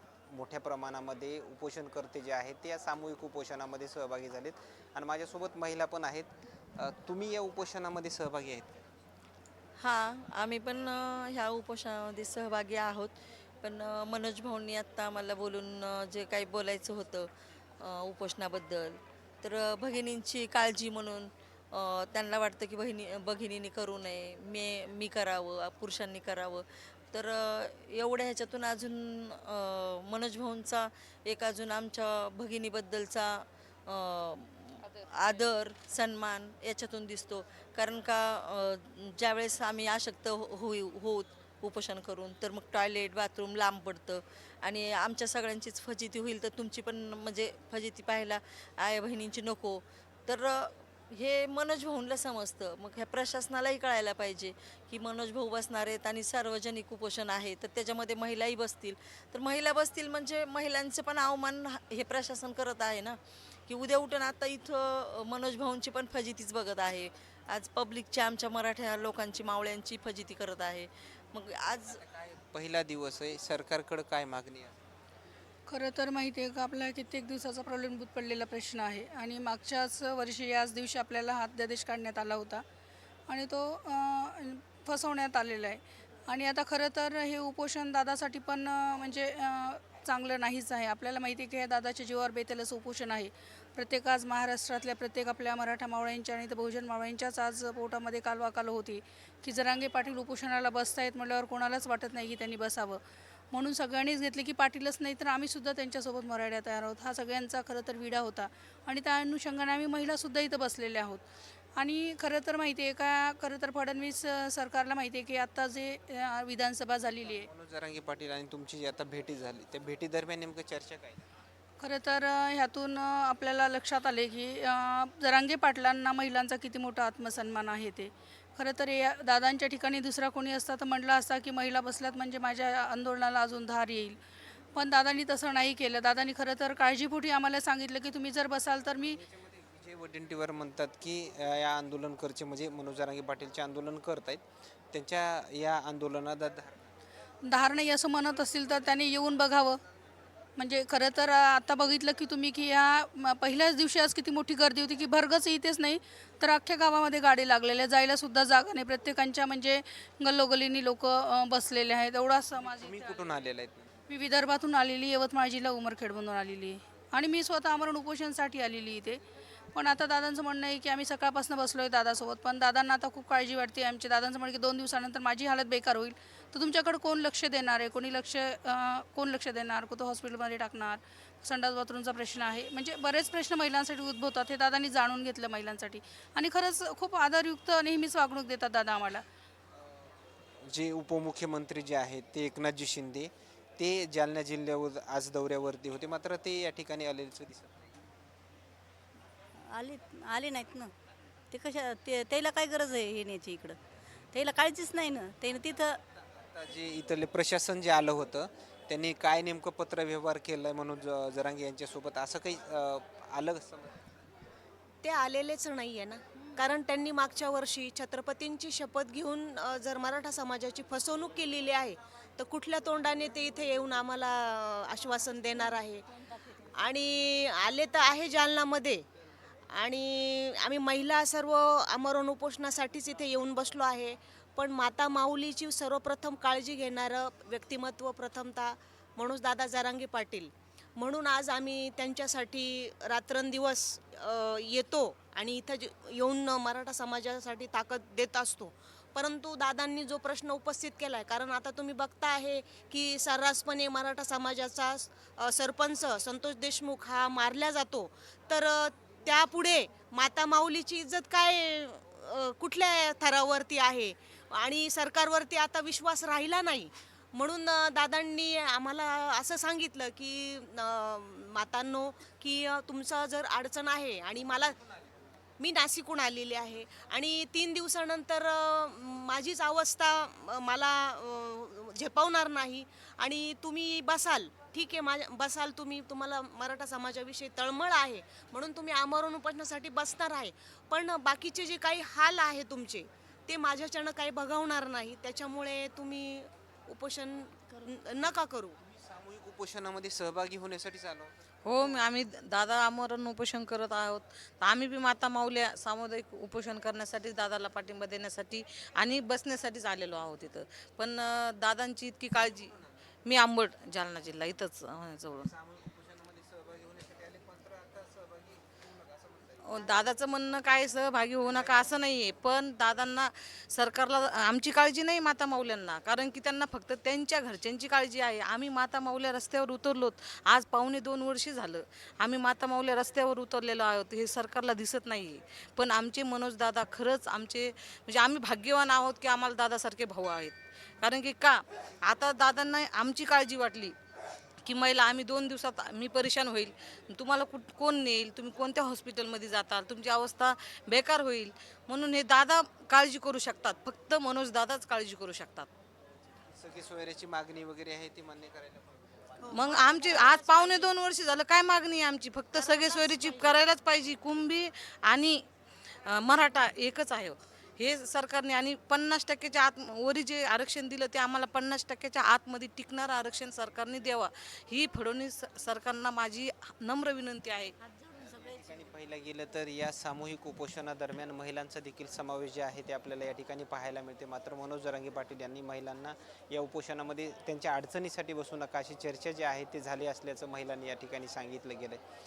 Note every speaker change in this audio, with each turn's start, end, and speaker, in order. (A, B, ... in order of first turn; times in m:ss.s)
0:00.3-0:08.8 A
0:09.8-1:12.0 B
1:12.1-1:14.8 A
1:15.7-1:22.6 C
1:23.3-1:43.0 C
1:43.5-1:51.2 C
1:51.8-1:57.5 C
1:57.2-2:01.2 A
2:01.8-2:14.2 C
2:14.7-2:19.2 C
2:19.0-2:26.8 A
2:27.4-2:29.8 C
2:30.6-2:43.4 C
2:42.6-2:44.0 A
2:44.1-2:49.2 C
2:49.7-3:09.2 C
3:10.7-3:17.8 A
3:19.7-3:20.9 D
3:21.5-3:23.8 D
3:24.3-3:26.0 D
3:26.4-3:34.1 A
3:35.0-3:46.0 E
3:46.8-3:49.0 E
3:49.7-4:34.8 E
4:35.6-4:58.7 E
4:58.8-5:02.0 A
5:01.6-5:12.7 F
5:13.2-5:15.5 F
5:15.4-5:19.6 A
5:19.6-5:44.0 F
5:21.5-5:22.0 A
5:44.6-5:55.7 F
5:56.4-5:59.6 A
5:59.5-6:00.9 E
5:59.5-6:05.4 F
6:02.5-6:03.6 E
6:06.0-6:17.7 F
6:17.8-6:18.1 D
6:18.2-6:32.0 A